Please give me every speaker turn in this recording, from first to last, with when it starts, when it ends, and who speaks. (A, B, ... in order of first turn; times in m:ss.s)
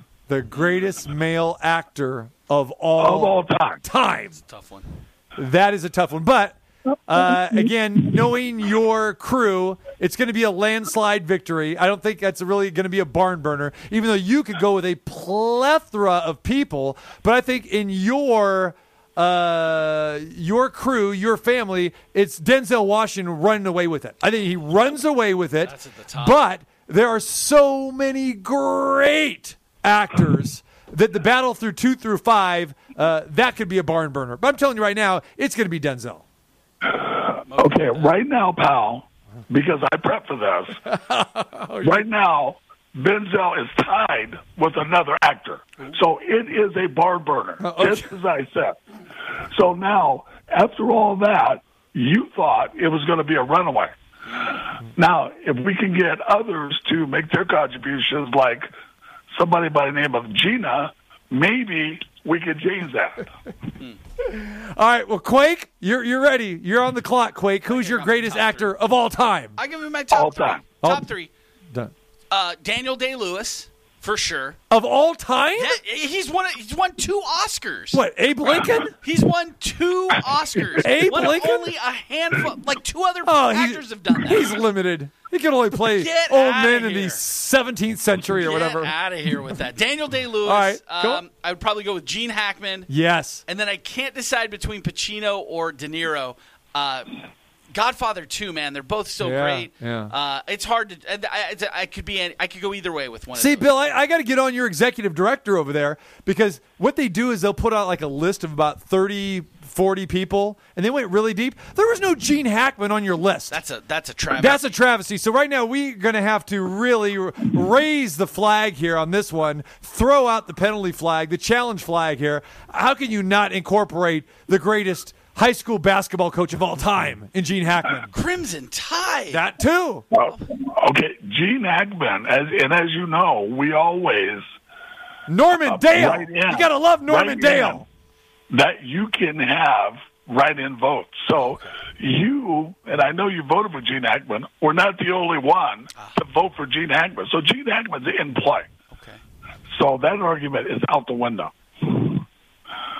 0:00.3-0:04.4 A
0:03.0-0:03.8 B
0:04.4-0:04.9 C
0:05.4-0:36.2 A
0:25.6-0:26.4 C
0:36.8-0:40.8 B
0:37.5-0:38.1 C
0:40.8-0:42.0 A
0:41.8-0:48.8 B
0:47.6-0:48.1 A
0:49.4-0:53.9 B
0:54.2-0:54.6 C
0:54.8-0:58.7 B
0:59.3-1:03.3 B
1:04.2-1:09.6 A
1:07.7-1:08.7 C
1:09.6-1:11.3 C
1:10.1-1:10.6 B
1:10.8-1:11.1 A
1:12.3-1:14.6 C
1:14.7-1:15.8 A
1:15.6-1:24.6 C
1:17.9-1:18.9 A
1:20.8-1:21.7 A
1:23.2-1:28.9 A
1:25.9-1:27.2 C
1:28.4-1:32.9 C
1:30.4-1:31.2 A
1:32.9-1:33.4 A
1:33.5-1:37.2 C
1:37.7-1:43.7 C
1:39.2-1:40.1 A
1:43.3-1:53.6 A
1:53.5-1:54.6 C
1:54.3-2:08.1 A
2:08.1-2:09.4 C
2:09.3-2:10.0 A
2:10.1-2:14.4 B
2:10.1-2:10.4 C
2:15.3-2:17.8 A
2:15.6-2:17.8 B
2:18.5-2:28.7 B
2:21.3-2:21.8 C
2:28.9-2:29.2 C
2:29.7-2:32.2 B